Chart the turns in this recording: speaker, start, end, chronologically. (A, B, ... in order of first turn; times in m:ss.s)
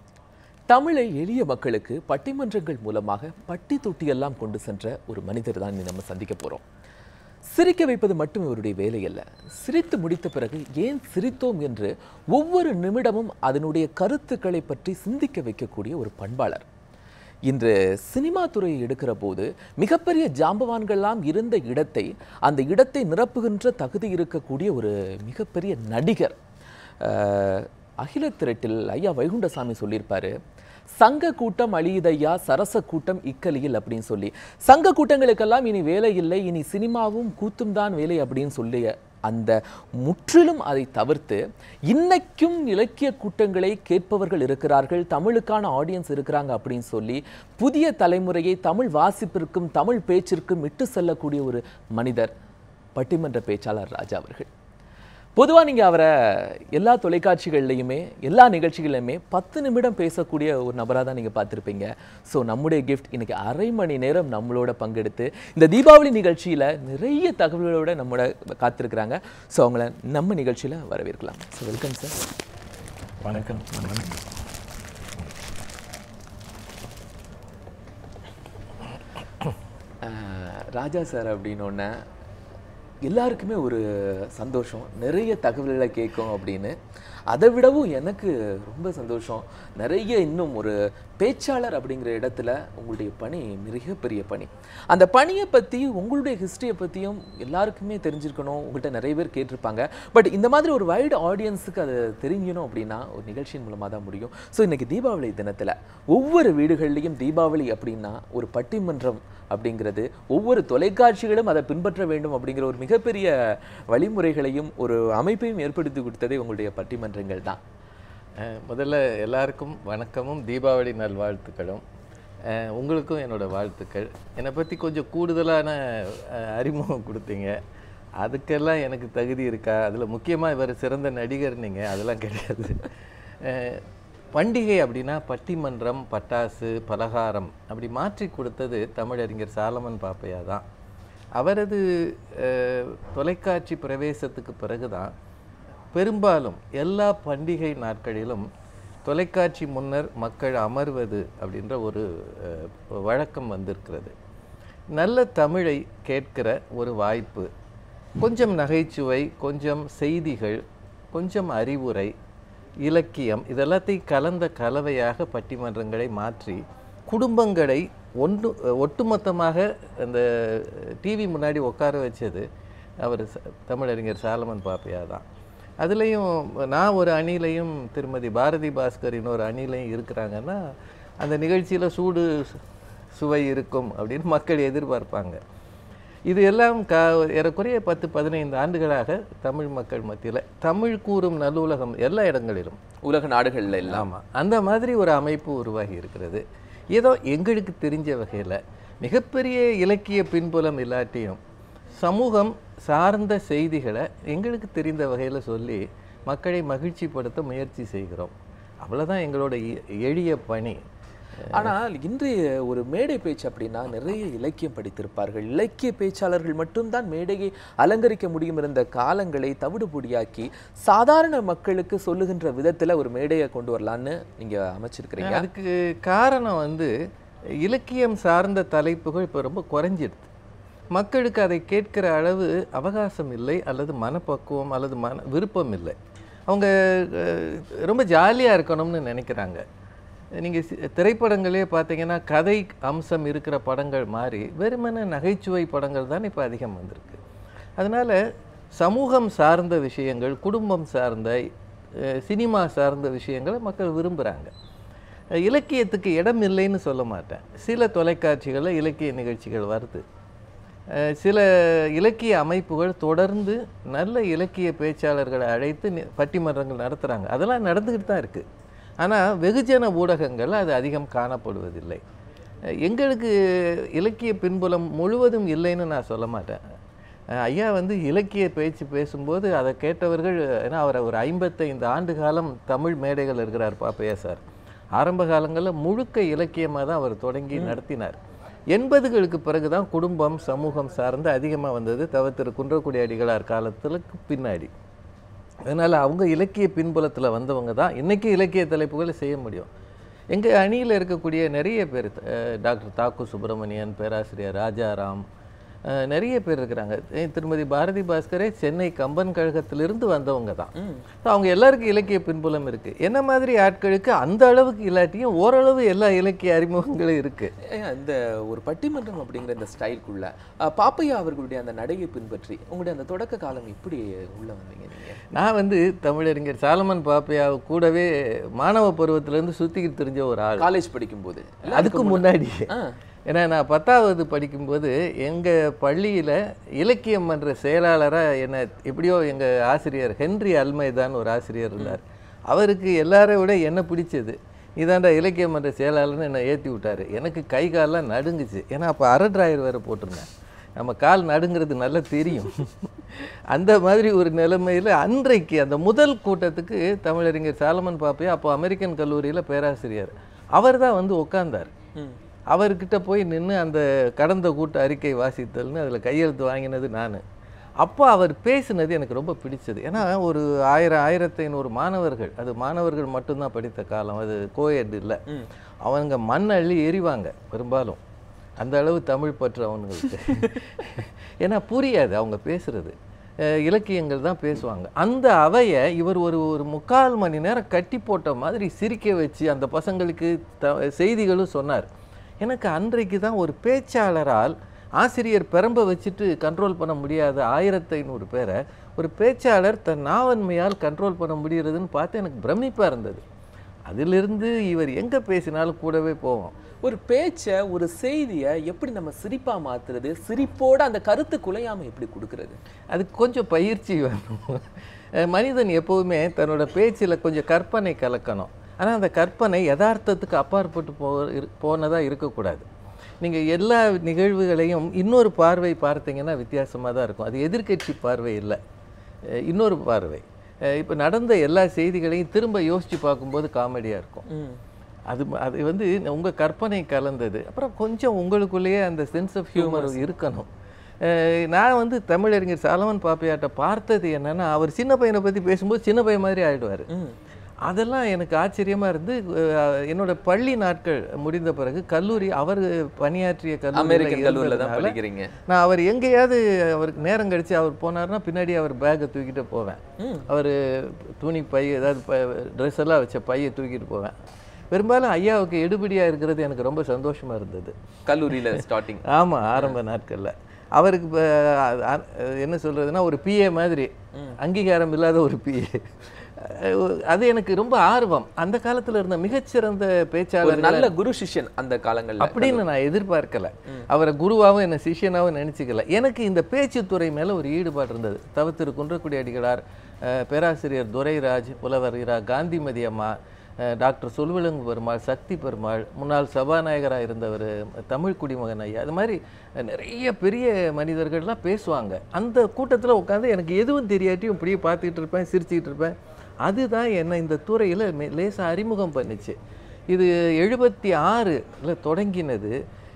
0:00.7-0:06.6 A
0:07.5-0:16.7 A
0:17.5-0:26.4 A
0:27.0-0:30.3 A
0:31.0-0:52.3 A
0:53.0-0:54.5 A
0:55.4-1:12.2 A
1:13.2-1:14.2 B
1:20.0-1:21.9 A
1:23.0-1:26.8 A
1:27.3-1:57.6 A
1:58.4-2:01.8 B
2:02.4-2:07.6 B
2:08.2-2:13.8 B
2:14.4-2:20.6 B
2:21.4-2:25.1 B
2:25.9-2:28.5 B
2:29.0-2:34.1 B
2:34.9-2:37.5 B
2:38.2-2:42.1 B
2:42.8-2:52.4 B
2:53.0-2:55.2 B
2:55.8-3:00.6 B
3:01.2-3:02.6 B
3:03.1-3:05.4 B
3:06.3-3:12.8 B
3:13.0-3:14.1 A
3:13.9-3:21.4 B
3:22.0-3:30.8 B
3:31.5-3:45.5 A
3:45.2-3:46.9 B
3:47.6-3:50.3 B
3:50.9-3:56.0 B
3:56.5-3:59.6 B
4:00.4-4:07.2 B
4:07.8-4:08.2 B
4:08.8-4:14.5 B
4:15.4-4:20.0 B
4:20.9-4:28.4 B
4:29.0-4:32.0 B
4:32.8-4:36.6 B
4:37.3-4:44.4 B
4:45.0-4:48.2 B
4:48.7-4:54.7 B
4:55.7-4:59.7 B
5:00.3-5:05.2 B
5:05.8-5:10.7 B
5:10.8-5:11.0 A
5:11.2-5:17.5 B
5:17.6-5:25.2 A
5:25.3-5:30.7 B
5:30.6-5:32.9 A
5:31.7-5:32.7 B
5:33.3-6:01.7 B
6:02.5-6:07.2 B
6:07.8-6:15.2 B
6:15.8-6:18.0 B
6:18.6-6:31.9 B
6:32.4-6:43.2 B
6:43.9-6:46.5 B
6:46.8-6:52.6 A
6:52.9-7:02.7 B
7:03.2-7:08.6 B
7:09.3-7:14.2 B
7:14.3-7:14.6 A
7:15.1-7:20.5 B
7:19.5-7:20.0 A
7:21.0-7:26.9 B
7:26.9-7:27.2 A
7:27.6-7:44.2 B
7:33.7-7:35.3 A
7:40.0-7:40.3 A
7:44.7-7:47.7 B
7:48.1-7:49.8 A
7:48.3-8:00.9 B
8:00.4-8:02.6 A
8:02.2-8:29.4 B
8:29.9-8:32.6 B